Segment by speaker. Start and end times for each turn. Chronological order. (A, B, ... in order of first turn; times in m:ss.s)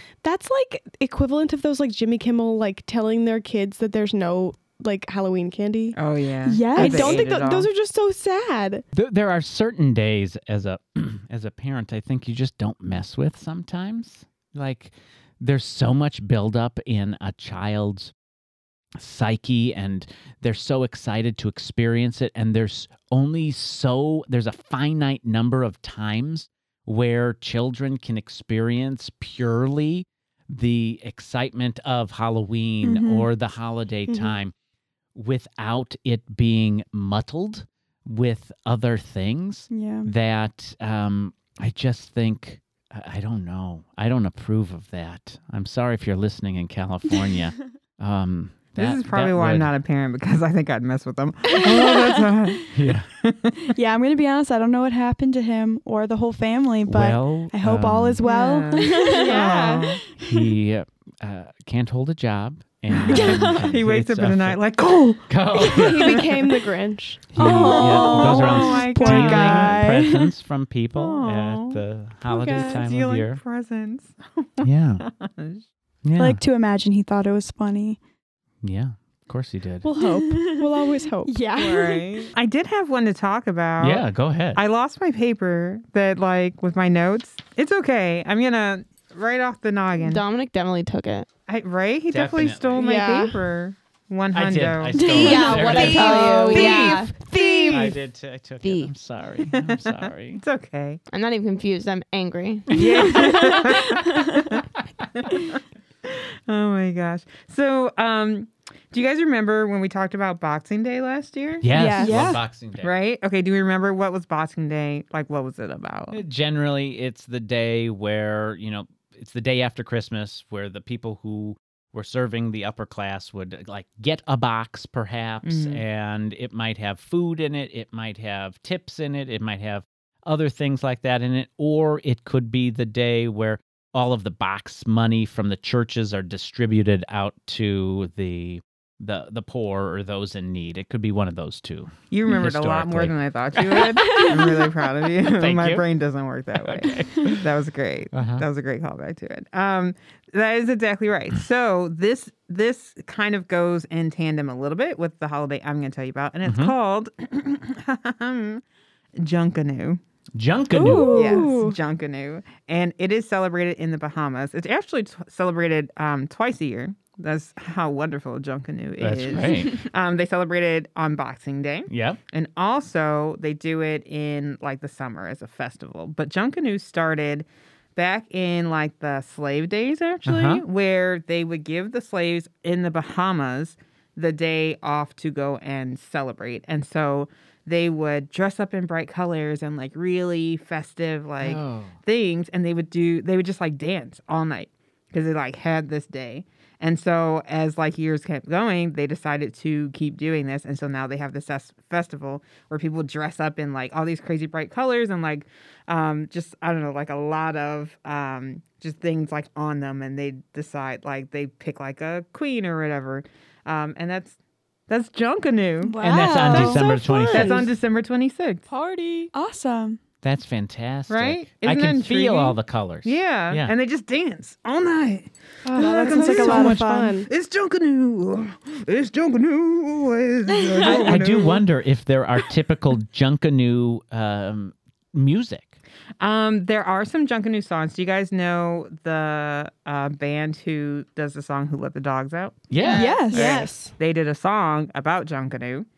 0:00.2-0:06.0 A
0:06.0-0:07.7 B
0:06.5-0:07.3 C
0:06.8-0:08.8 A
0:08.9-0:18.1 D
0:19.0-0:34.5 D
0:32.8-0:33.3 C
0:34.1-0:34.4 A
0:35.2-0:49.7 D
0:39.7-0:40.1 C
0:48.8-0:53.8 B
0:52.7-0:53.1 D
0:53.8-0:59.6 C
0:56.9-0:58.2 D
0:58.2-1:00.0 B
0:58.9-1:00.0 A
0:59.0-0:59.7 E
1:00.2-1:04.6 D
1:03.0-1:06.0 B
1:05.3-1:06.4 D
1:05.7-1:08.4 A
1:07.3-1:13.4 D
1:07.4-1:10.3 C
1:07.4-1:10.0 B
1:11.0-1:11.8 B
1:12.3-1:12.8 A
1:12.4-1:15.6 B
1:14.6-1:15.0 D
1:16.0-1:16.4 D
1:16.2-1:18.0 C
1:18.6-1:19.9 D
1:19.8-1:21.4 A
1:20.2-1:20.5 C
1:21.3-1:22.3 C
1:21.5-1:30.2 B
1:23.8-1:24.6 D
1:30.0-1:31.3 E
1:31.5-1:38.0 B
1:32.1-1:32.9 D
1:32.8-1:33.4 A
1:34.3-1:36.9 D
1:35.0-1:37.7 C
1:35.1-1:37.8 E
1:35.2-1:37.8 A
1:37.7-1:40.4 D
1:38.6-1:38.9 E
1:39.5-1:41.0 B
1:41.1-1:43.4 E
1:42.7-1:44.6 B
1:42.8-1:44.2 C
1:45.2-1:56.2 B
1:51.6-1:52.9 D
1:51.7-1:52.4 C
1:56.1-2:24.4 D
2:05.4-2:05.8 B
2:22.1-2:38.6 B
2:24.0-2:24.6 C
2:25.2-2:25.8 D
2:26.6-2:27.4 D
2:28.1-2:28.4 D
2:36.4-2:36.7 D
2:39.2-2:40.0 B
2:40.4-2:41.4 D
2:40.7-2:41.8 C
2:41.2-3:34.4 B
2:49.0-2:49.8 D
2:51.9-2:52.2 D
3:00.3-3:00.6 D
3:11.4-3:12.0 D
3:34.9-3:38.6 B
3:35.8-3:36.8 C
3:36.0-3:37.7 D
3:36.6-3:37.7 A
3:38.7-3:39.0 E
3:38.7-3:39.3 A
3:39.3-3:40.0 C
3:40.2-3:43.7 D
3:41.1-3:51.7 B
3:45.6-3:47.2 C
3:45.8-3:47.3 A
3:50.8-3:55.7 D
3:56.2-4:02.7 B
4:02.7-4:03.2 D
4:02.7-4:03.3 E
4:02.9-4:03.7 C
4:03.0-4:04.0 A
4:03.3-4:05.9 B